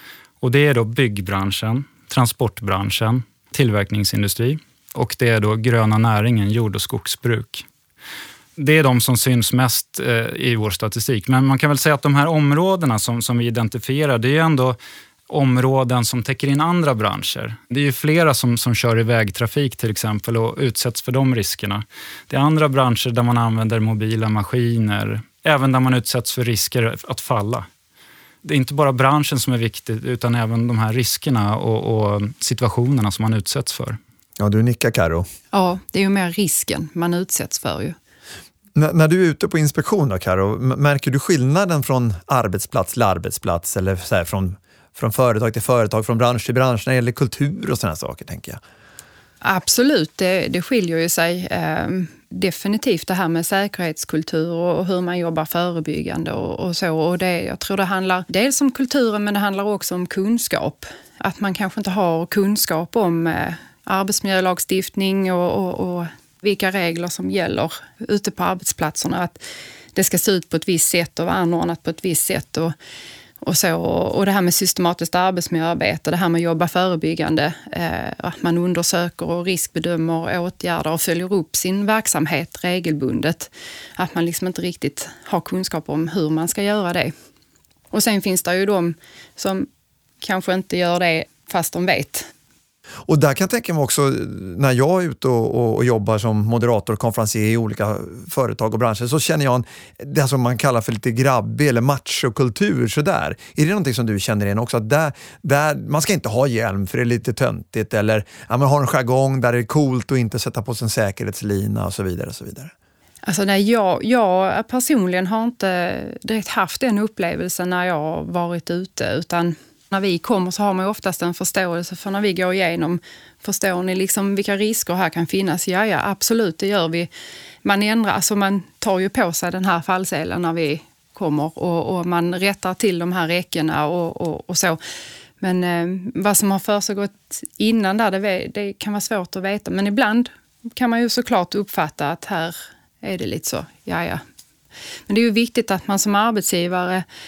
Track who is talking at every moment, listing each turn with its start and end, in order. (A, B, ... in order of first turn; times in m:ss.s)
0:00.4-0:07.6 A
0:08.6-0:14.8 A
0:15.3-0:27.7 A
0:28.4-0:34.0 A
0:34.4-0:35.3 B
0:35.5-0:38.0 C
0:38.8-0:48.6 B
0:49.4-1:09.4 C
1:10.0-1:12.7 C
1:13.4-1:27.1 C
1:27.9-1:29.7 C
1:30.2-1:32.3 C
1:33.1-1:52.7 B
1:53.2-2:07.1 C
2:07.6-2:14.8 C
2:15.4-2:24.2 C
2:25.1-2:27.0 C